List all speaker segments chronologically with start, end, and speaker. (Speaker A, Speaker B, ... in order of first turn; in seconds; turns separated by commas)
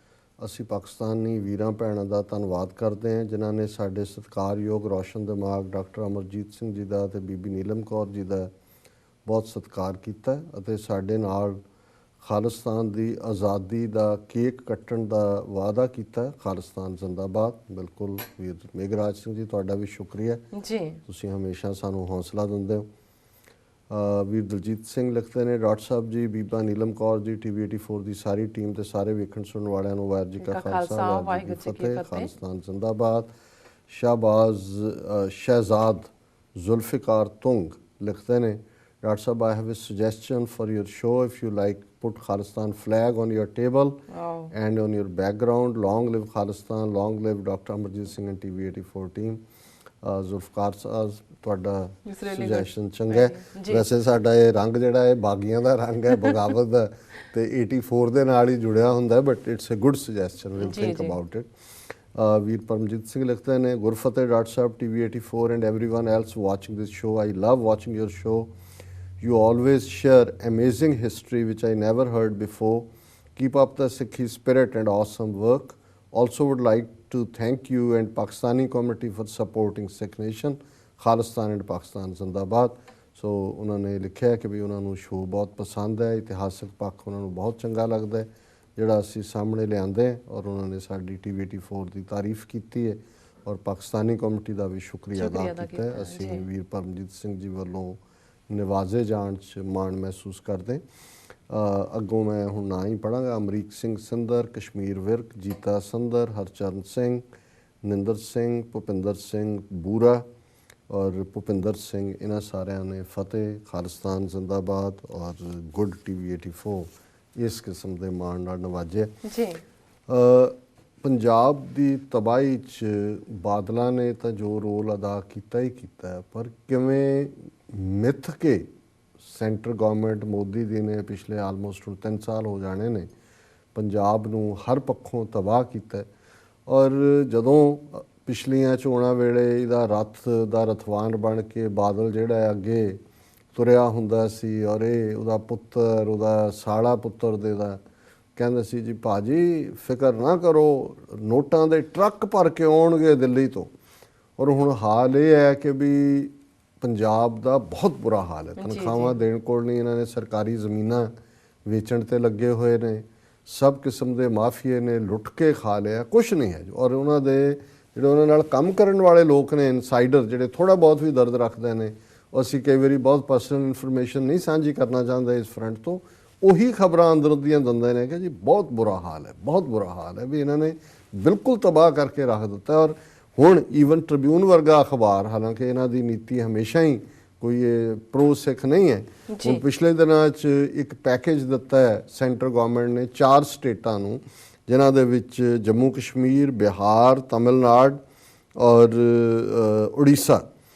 Speaker A: 0.4-8.5, Speaker A: 9.2-11.6, Speaker A: 12.2-20.4, Speaker B: 20.5-21.0, Speaker A: 21.1-22.9, Speaker A: 23.9-33.3, Speaker B: 30.4-32.3, Speaker A: 33.9-44.0, Speaker B: 44.1-44.5, Speaker A: 44.5-49.4, Speaker A: 50.0-61.5, Speaker B: 52.0-53.8, Speaker B: 60.6-61.1, Speaker A: 62.1-68.5, Speaker A: 69.2-100.8, Speaker B: 95.2-96.4, Speaker A: 101.5-107.2, Speaker A: 107.8-110.2, Speaker A: 110.9-119.1, Speaker B: 119.2-119.6, Speaker A: 120.1-128.7, Speaker A: 129.2-133.1, Speaker A: 133.7-136.1, Speaker A: 136.7-143.0, Speaker A: 143.5-147.8, Speaker A: 148.3-153.7, Speaker A: 154.4-161.1, Speaker B: 158.6-159.2, Speaker A: 161.7-198.0, Speaker B: 189.3-189.6, Speaker A: 198.6-200.4